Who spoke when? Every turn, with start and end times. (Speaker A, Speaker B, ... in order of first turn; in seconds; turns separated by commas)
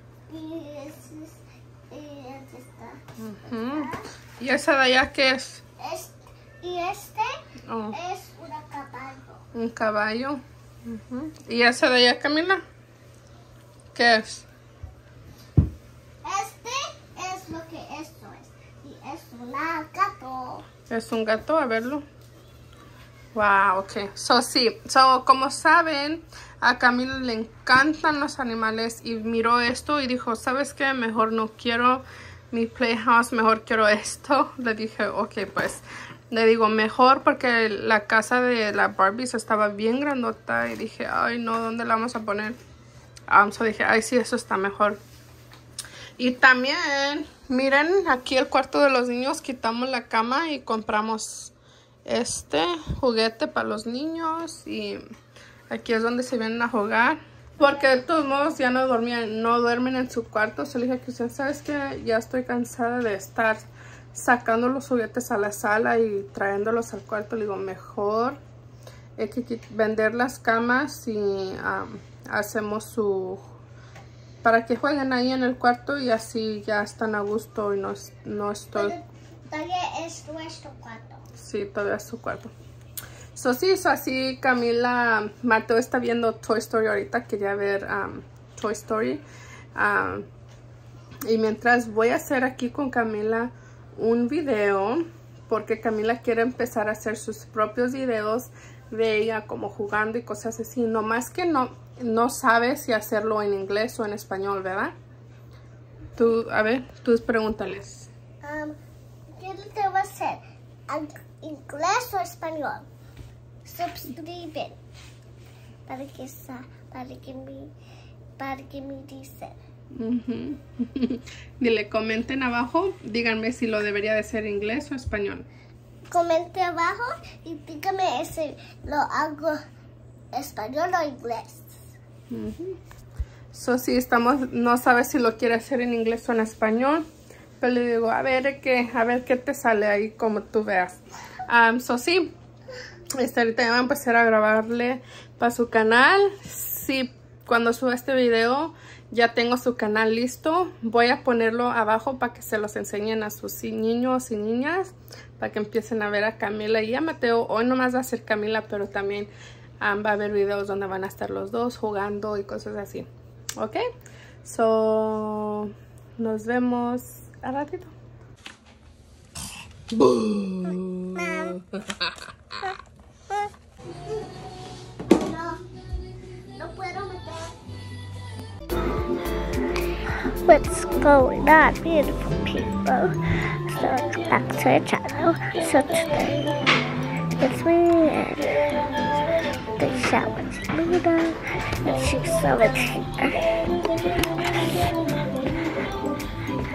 Speaker A: 0.3-4.1, Speaker B: 3.2-5.6, Speaker A: 5.8-7.4, Speaker B: 7.7-8.0, Speaker A: 7.9-9.4, Speaker B: 9.5-12.6, Speaker B: 13.9-14.5, Speaker A: 16.2-20.6, Speaker B: 20.9-22.0, Speaker B: 23.3-42.6, Speaker B: 43.3-45.0, Speaker B: 46.2-51.5, Speaker B: 52.0-55.0, Speaker B: 55.7-68.4, Speaker B: 69.2-73.4, Speaker B: 74.4-78.9, Speaker A: 78.7-81.2, Speaker B: 81.3-82.5, Speaker B: 83.3-89.2, Speaker B: 89.7-90.2, Speaker B: 91.2-104.9, Speaker B: 106.1-108.1, Speaker A: 108.4-108.8, Speaker A: 109.4-112.9, Speaker A: 113.6-114.8, Speaker A: 115.9-117.7, Speaker A: 118.4-119.5, Speaker B: 119.9-125.5, Speaker A: 126.1-129.6, Speaker A: 130.3-131.9, Speaker B: 132.3-132.8, Speaker B: 133.5-137.1, Speaker B: 137.6-142.3, Speaker B: 143.2-163.8, Speaker B: 164.4-167.9, Speaker B: 169.9-172.1, Speaker A: 171.2-171.5, Speaker A: 175.1-175.6, Speaker A: 176.5-177.6, Speaker A: 180.1-186.6, Speaker A: 187.4-188.7, Speaker A: 189.8-193.6, Speaker A: 194.2-194.9